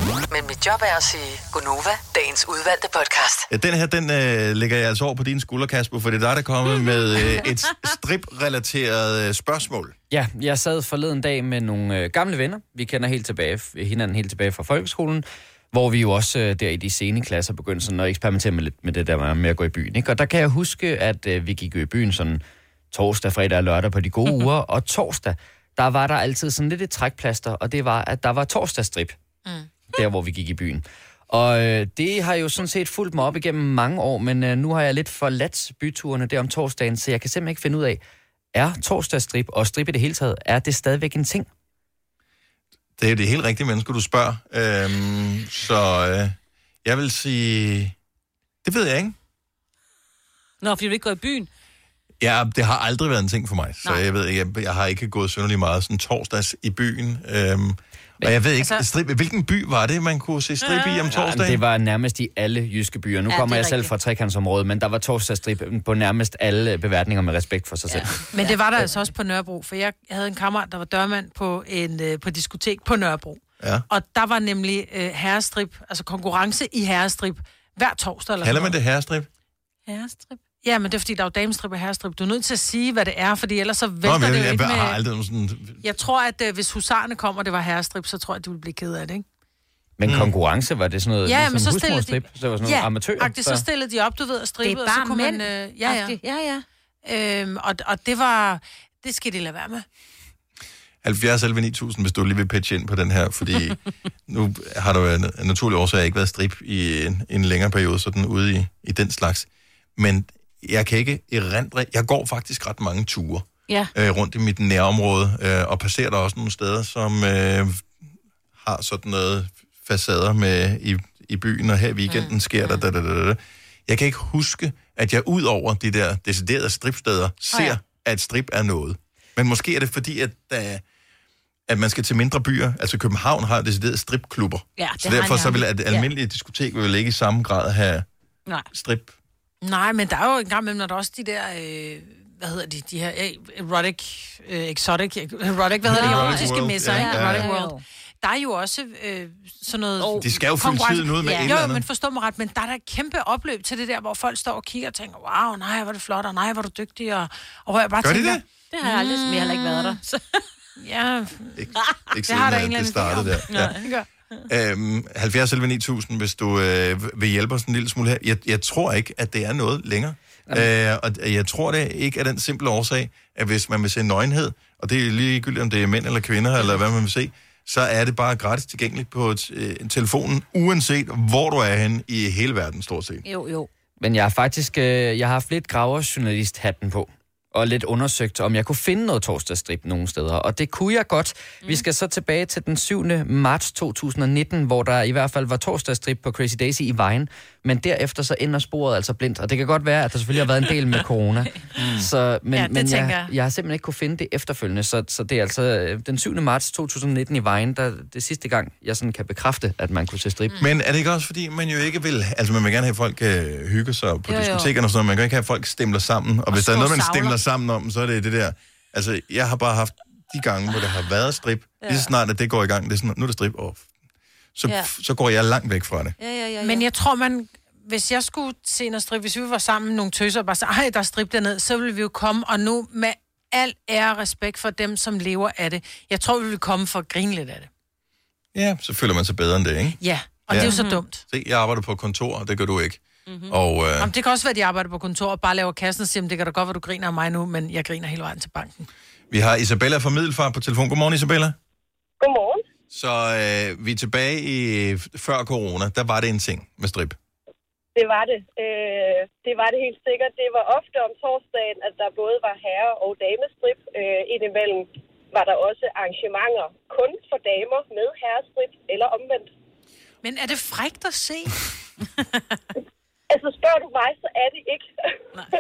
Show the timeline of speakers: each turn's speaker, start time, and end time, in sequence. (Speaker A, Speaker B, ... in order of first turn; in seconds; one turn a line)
Speaker A: 0.3-3.5
Speaker B: 3.5-9.9
Speaker C: 10.1-29.2
Speaker C: 29.9-38.0
Speaker C: 38.5-41.5
Speaker B: 43.0-48.0
Speaker B: 48.6-49.1
Speaker D: 50.6-51.5
Speaker B: 52.2-61.6
Speaker D: 60.6-61.1
Speaker C: 61.1-68.2
Speaker D: 63.3-64.0
Speaker D: 67.9-68.5
Speaker E: 68.3-78.8
Speaker B: 73.6-73.8
Speaker B: 78.4-79.3
Speaker D: 79.9-80.4
Speaker E: 80.6-85.0
Speaker B: 84.0-85.8
Speaker E: 85.8-89.2
Speaker C: 90.0-93.6
Speaker E: 91.2-96.2
Speaker D: 94.6-96.7
Speaker E: 97.0-99.8
Speaker B: 101.0-117.9
Speaker B: 118.6-130.8
Speaker E: 122.1-122.3
Speaker B: 131.7-138.1
Speaker D: 134.8-136.1
Speaker E: 135.2-135.5
Speaker B: 138.7-139.2
Speaker E: 139.6-160.0
Speaker B: 145.8-147.5
Speaker D: 145.9-147.8
Speaker D: 150.0-150.3
Speaker B: 150.2-151.8
Speaker D: 151.2-151.5
Speaker B: 158.0-158.4
Speaker D: 158.7-160.4
Speaker E: 160.8-161.6
Speaker B: 161.6-163.8
Speaker E: 162.3-164.1
Speaker D: 163.5-164.4
Speaker B: 164.5-183.2
Speaker D: 183.2-183.7
Speaker C: 184.0-210.6
Speaker B: 201.8-202.1
Speaker E: 202.5-203.3
Speaker B: 210.6-223.9
Speaker D: 214.3-214.7
Speaker E: 216.5-217.4
Speaker D: 221.8-222.1
Speaker B: 224.6-226.2
Speaker D: 226.2-226.9
Speaker E: 226.6-237.7
Speaker B: 238.5-240.7
Speaker E: 240.0-241.2
Speaker D: 240.6-241.0
Speaker B: 241.3-244.1
Speaker D: 243.3-243.6
Speaker E: 244.0-248.9
Speaker B: 249.3-251.6
Speaker F: 252.2-252.6
Speaker B: 252.9-257.2
Speaker F: 257.9-269.5
Speaker E: 270.2-271.6
Speaker F: 273.3-274.9